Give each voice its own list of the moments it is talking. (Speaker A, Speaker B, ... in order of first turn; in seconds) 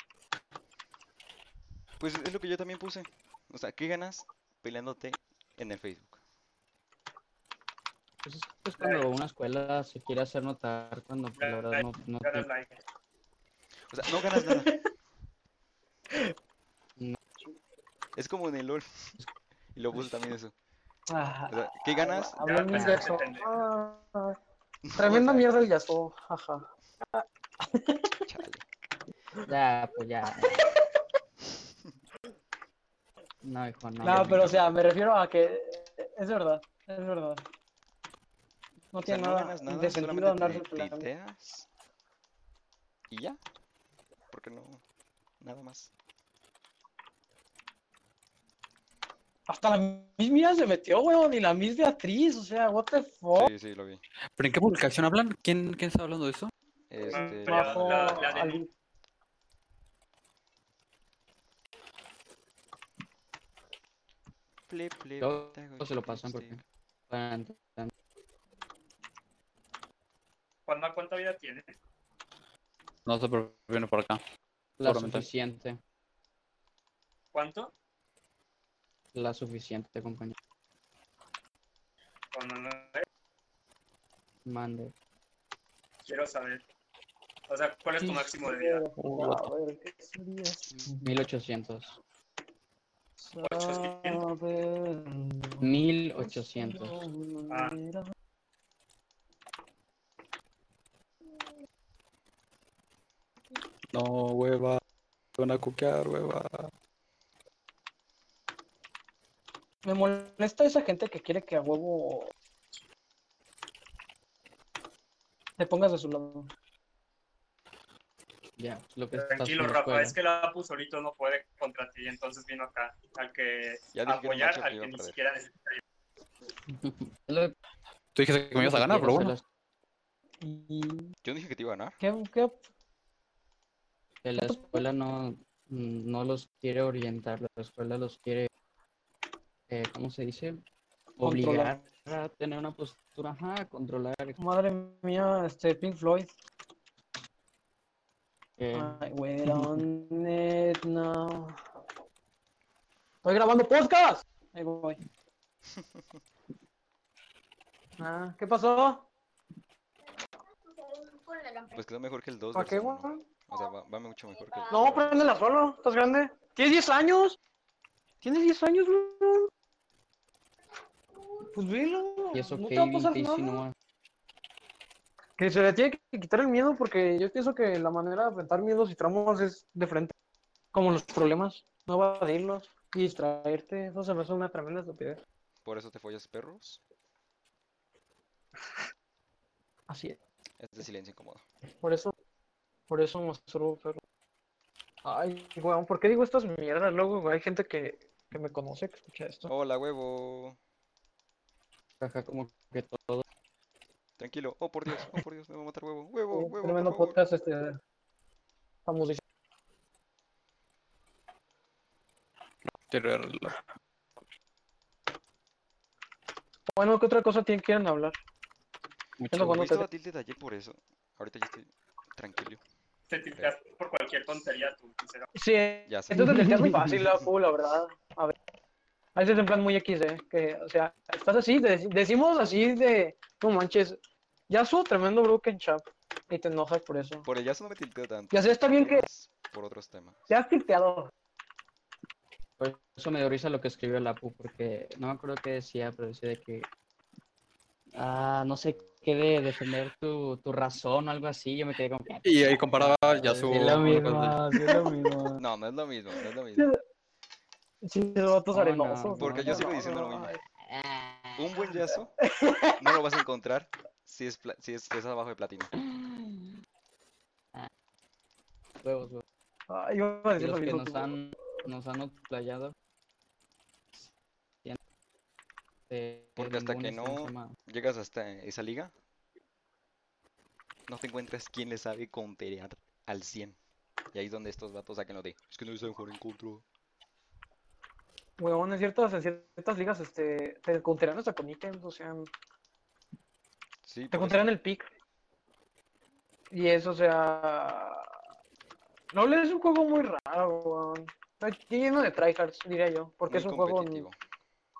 Speaker A: 2.0-6.2, 13.9-14.7, 18.1-19.2, 19.7-20.5, 21.5-22.4, 24.9-25.5, 28.2-28.6, 34.1-34.7, 39.0-41.6, 43.1-43.4, 44.3-44.8, 45.4-45.9, 53.3-54.0, 56.9-58.3, 64.7-66.6, 123.9-125.2, 131.2-132.0, 155.7-156.0, 161.7-165.3, 185.6-186.8, 190.6-191.4, 199.5-200.6, 204.2-207.2, 219.5-222.6, 225.9-226.5, 237.2-240.3, 255.4-256.7, 259.2-260.4, 261.4-262.1, 262.8-265.7, 276.4-278.9, 280.9-283.6, 284.1-286.6, 293.8-294.5, 303.2-304.1
Speaker B: 8.2-12.4, 22.7-23.1, 29.4-30.6, 33.4-34.6, 65.2-67.9, 74.8-75.8, 79.1-80.3, 84.5-84.9, 90.7-92.0, 95.6-97.0, 118.6-120.1, 126.7-127.5, 128.6-129.4, 134.2-138.5, 139.7-140.6, 141.2-144.4, 148.6-149.0, 172.3-173.7, 202.0-203.2, 226.2-226.7, 242.6-246.7, 247.9-255.4, 258.5-259.7, 260.6-261.6, 265.7-266.6, 268.8-269.2, 270.4-272.7, 275.9-277.6
Speaker C: 8.8-9.1, 11.4-12.8, 22.4-23.5, 57.1-58.6, 70.7-71.7, 77.3-77.7, 82.3-83.0, 86.0-86.6, 87.5-88.8, 93.4-94.2, 97.5-97.8, 119.1-125.8, 223.1-225.3
Speaker D: 14.3-14.7, 21.1-24.4, 25.0-28.2, 34.0-37.4, 38.9-41.1, 49.5-53.5, 57.0-58.7, 88.0-91.2, 93.2-98.1, 109.8-112.3, 115.6-116.5, 130.4-131.1, 132.0-132.6, 134.4-134.8, 141.2-141.8, 144.4-146.3, 148.7-151.6, 153.2-155.0, 158.0-159.1, 162.5-163.2, 164.7-167.4, 168.2-169.5, 171.4-173.6, 175.4-180.1, 180.7-185.2, 189.9-190.2, 191.8-192.1, 192.9-194.0, 195.0-199.5, 206.3-207.8, 208.8-209.2, 216.7-218.2, 219.3-219.8, 225.3-228.3, 229.1-237.2, 238.3-239.0, 240.3-241.1, 257.8-260.4, 262.2-263.0, 269.7-271.1, 288.4-292.3, 294.1-294.9, 296.5-298.1, 299.1-304.1
Speaker E: 54.4-56.5, 73.0-74.2, 74.8-75.2, 89.0-89.5, 103.9-104.8, 105.4-106.7, 128.1-129.3, 212.7-213.6, 219.2-219.6, 252.2-254.4